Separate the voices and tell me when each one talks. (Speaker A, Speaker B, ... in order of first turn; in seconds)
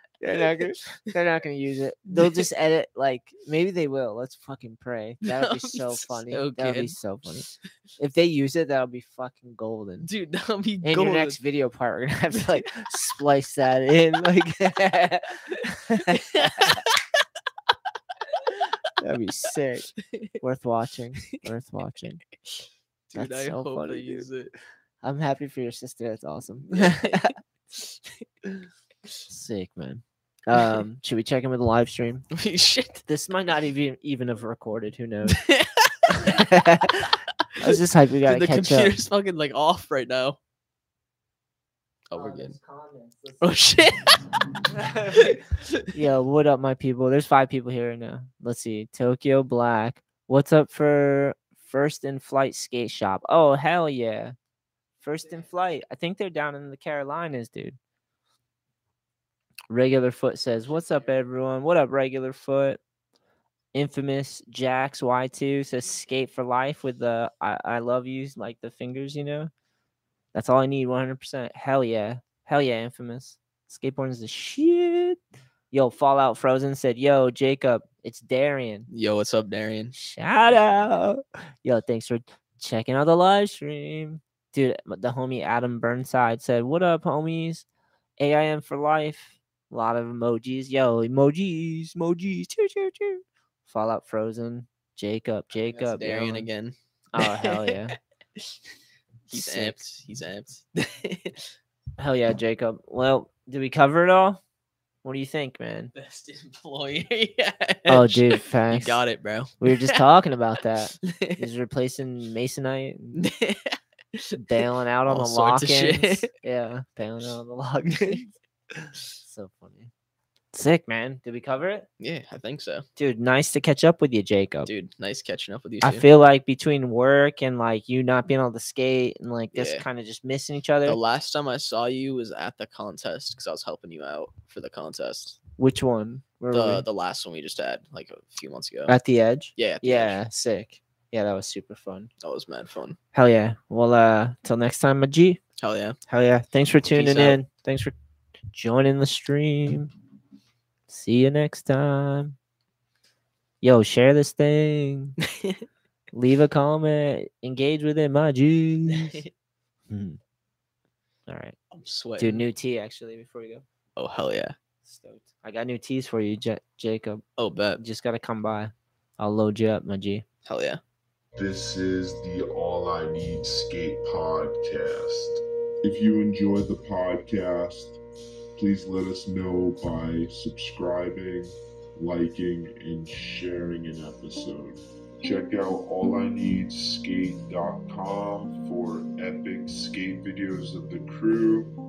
Speaker A: 0.2-10.1, 10.8-16.8, 19.0-19.9, 20.4-22.2, 23.1-24.3, 25.0-27.3, 29.3-32.2, 33.0-35.4, 36.1-38.9, 42.1-43.4, 44.7-45.4, 45.9-54.4, 55.0-57.8, 59.7-62.8, 63.7-69.5, 70.3-75.2, 75.7-78.9, 79.9-87.7, 88.2-96.5, 97.1-98.0, 99.3-99.8, 102.0-104.4, 105.0-105.9, 107.9-109.0, 109.6-113.3, 114.3-118.3, 119.2-119.9, 120.5-121.9, 123.0-124.7, 125.8-131.0, 135.6-136.8, 138.9-142.1, 143.1-145.4, 146.1-147.9, 148.5-149.9, 150.9-152.3, 153.6-155.2, 156.1-159.2, 159.9-160.2, 161.3-161.6, 162.2-163.6, 164.8-167.2, 167.8-170.2
Speaker B: 2.1-2.5, 5.2-7.5, 10.0-11.4, 16.1-17.0, 23.1-24.5, 26.7-27.9, 32.3-33.0, 35.3-36.4, 37.6-40.4, 42.1-42.5, 43.4-44.3, 45.1-45.9, 78.9-79.9, 95.5-97.8, 99.3-101.5, 105.9-110.0, 111.0-111.4, 113.2-116.3, 122.0-122.8, 124.7-126.0, 129.5-129.8, 130.8-135.4, 136.5-138.9, 139.6-140.2, 142.2-143.0, 145.6-146.0, 146.9-147.4, 158.9-159.3, 161.7-162.4, 163.9-164.5, 167.4-167.8, 170.4-170.8
Speaker C: 171.3-178.0, 178.6-191.7